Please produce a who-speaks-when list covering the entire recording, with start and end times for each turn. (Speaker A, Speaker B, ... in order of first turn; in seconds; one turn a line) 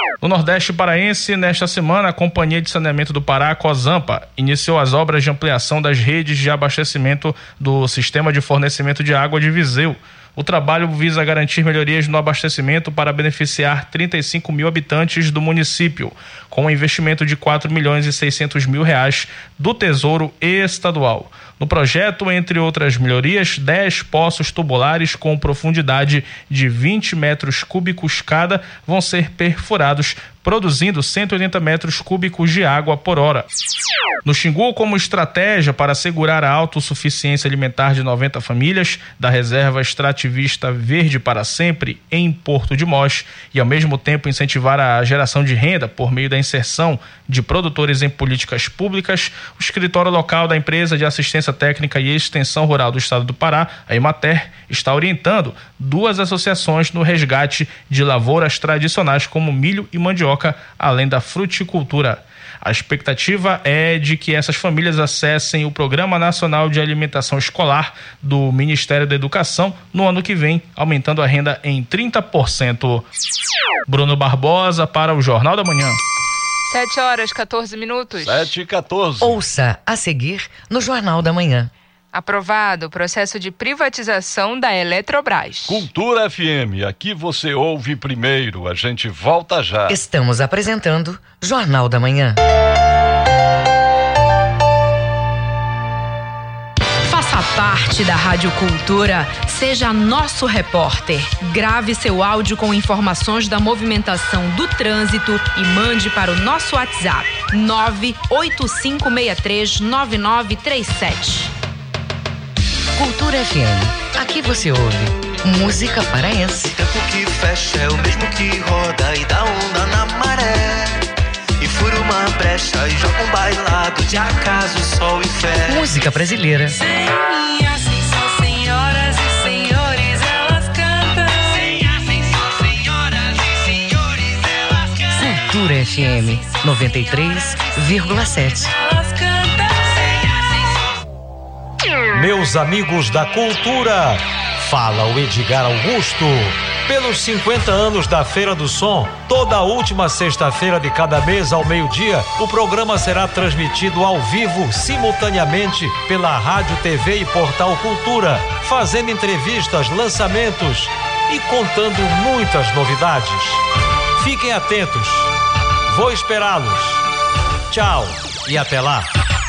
Speaker A: 0.2-33.5
Speaker A: 34.2-73.0
Speaker A: 73.9-76.0
Speaker B: 76.7-78.5
Speaker C: 78.2-79.4
Speaker D: 79.2-81.7
Speaker B: 82.1-85.8
Speaker C: 85.7-90.0
Speaker D: 89.9-92.4
Speaker E: 97.0-111.5
Speaker D: 113.0-116.7
Speaker F: 116.7-121.0
Speaker F: 121.6-125.8
Speaker D: 125.7-126.8
Speaker D: 135.1-138.7
Speaker G: 142.1-163.6
Speaker G: 164.2-165.3
Speaker G: 165.9-167.0
Speaker G: 167.7-169.1